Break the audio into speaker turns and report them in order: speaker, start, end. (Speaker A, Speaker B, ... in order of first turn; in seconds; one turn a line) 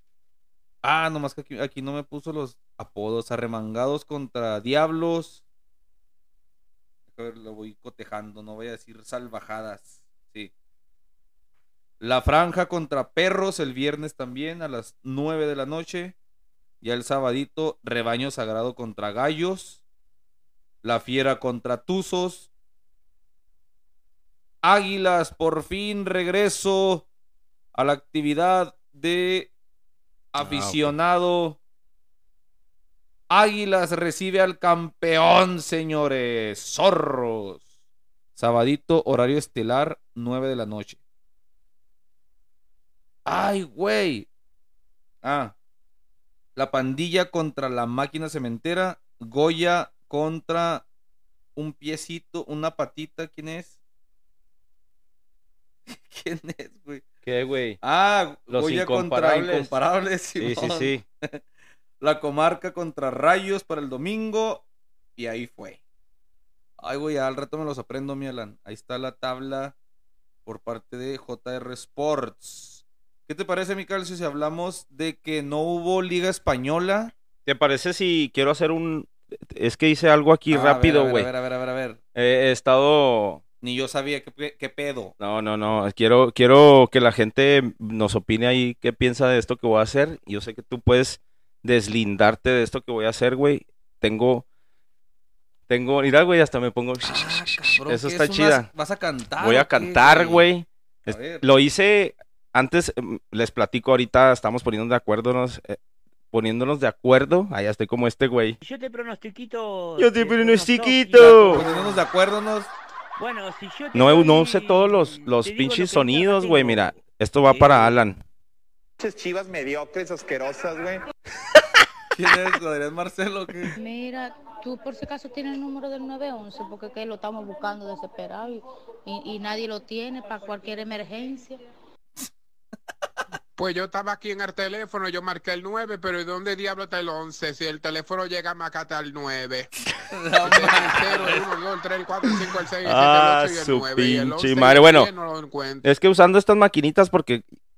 Speaker A: 0.8-5.4
Speaker A: 7.1-10.5
Speaker A: 12.0-16.1
Speaker A: 16.8-19.8
Speaker A: 20.8-22.5
Speaker A: 24.6-27.1
Speaker A: 27.7-29.5
Speaker A: 30.3-31.6
Speaker B: 30.4-30.9
Speaker A: 33.3-37.6
Speaker A: 38.4-41.0
Speaker A: 43.2-44.3
Speaker A: 45.2-45.5
Speaker A: 46.5-50.8
Speaker A: 51.5-53.8
Speaker A: 55.9-57.0
Speaker B: 57.2-57.8
Speaker A: 57.8-61.4
Speaker B: 58.5-59.7
Speaker B: 60.4-61.0
Speaker A: 62.0-64.6
Speaker A: 65.2-65.8
Speaker A: 66.8-69.7
Speaker A: 70.5-77.1
Speaker B: 77.5-81.3
Speaker A: 80.5-82.0
Speaker B: 82.1-83.4
Speaker A: 83.6-85.1
Speaker B: 85.2-94.4
Speaker B: 95.7-98.7
Speaker A: 97.0-100.5
Speaker B: 99.4-105.8
Speaker A: 101.1-101.5
Speaker B: 106.3-108.6
Speaker C: 108.6-112.0
Speaker B: 110.0-111.7
Speaker A: 111.2-112.7
Speaker C: 113.2-117.0
Speaker B: 113.9-118.2
Speaker C: 117.5-117.9
Speaker D: 119.0-121.0
Speaker A: 122.1-123.7
Speaker E: 123.8-131.6
Speaker F: 133.6-139.7
Speaker A: 140.1-141.4
Speaker F: 140.4-145.9
Speaker B: 142.8-145.1
Speaker B: 145.8-147.4